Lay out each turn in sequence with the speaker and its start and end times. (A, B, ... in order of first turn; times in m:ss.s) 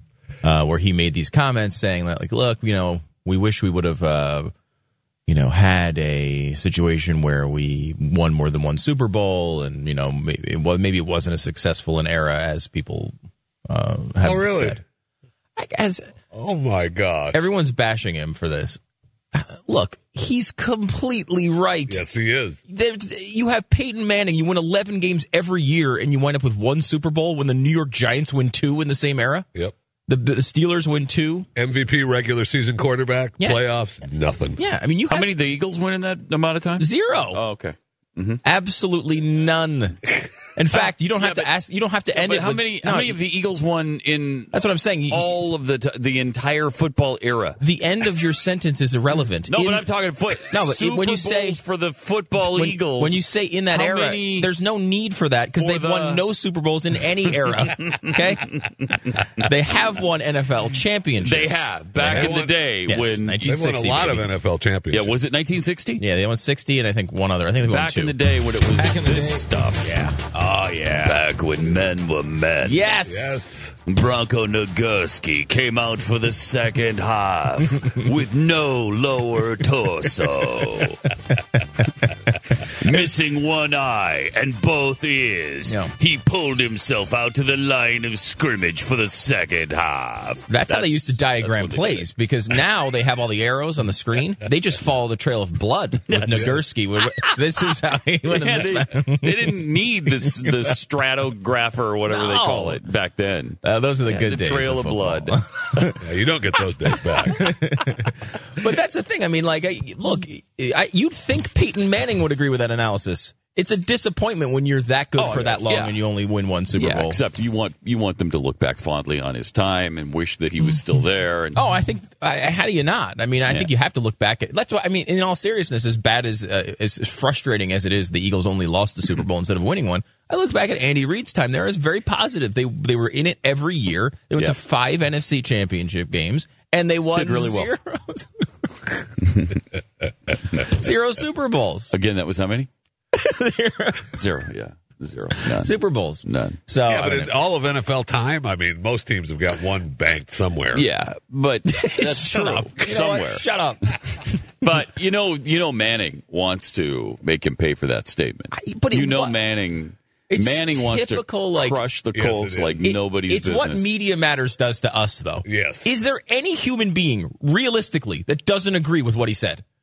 0:00.4-0:04.5 A
0:05.3-0:13.1 A
0:13.7-0:14.8 A
0:14.2-0:14.8 B
0:15.6-0:16.1 A
0:16.3-0:17.4 B
0:17.3-0:18.8 A
0:19.3-0:22.0 A
0:21.9-0:22.6 B
0:22.7-0:29.5 A
0:30.1-0:31.5 A
0:31.5-0:34.6 B
0:34.6-0:35.3 A
0:35.1-0:38.4 C
0:36.8-0:37.4 A
0:38.4-0:43.2 A
0:40.7-0:41.5 C
0:42.1-0:44.5 C
0:44.5-0:45.4 A
0:45.1-0:47.6 C
0:47.6-0:49.9 A
0:49.4-0:54.5 C
0:50.4-0:51.6 A
0:52.4-0:58.5 A
0:55.6-0:56.2 C
0:57.5-0:59.3 C
0:59.4-1:04.3 A
1:01.2-1:03.4 C
1:02.0-1:02.6 B
1:03.4-1:05.2 B
1:04.9-1:06.0 C
1:06.0-1:08.2 A
1:07.6-1:12.9 C
1:08.7-1:11.1 A
1:12.6-1:13.4 A
1:13.0-1:13.7 B
1:13.8-1:21.0 C
1:21.0-1:23.0 A
1:22.6-1:32.0 C
1:25.6-1:25.9 A
1:30.5-1:39.5 A
1:36.1-1:36.6 C
1:38.3-1:45.8 C
1:40.1-1:40.6 A
1:42.1-1:42.8 A
1:43.6-1:46.0 A
1:46.0-1:47.5 B
1:46.8-1:57.2 A
1:55.1-1:56.0 C
1:56.8-2:01.6 C
2:01.5-2:19.1 A
2:17.1-2:17.7 C
2:19.3-2:19.6 C
2:20.3-2:21.9 A
2:21.9-2:22.7 C
2:23.1-2:24.2 A
2:24.1-2:26.6 C
2:25.4-2:27.4 A
2:26.8-2:30.8 B
2:30.7-2:33.4 C
2:31.7-2:34.4 A
2:34.6-2:43.9 C
2:38.5-2:39.4 A
2:40.3-2:41.8 A
2:42.1-2:42.8 B
2:42.8-2:49.6 A
2:45.4-2:45.9 B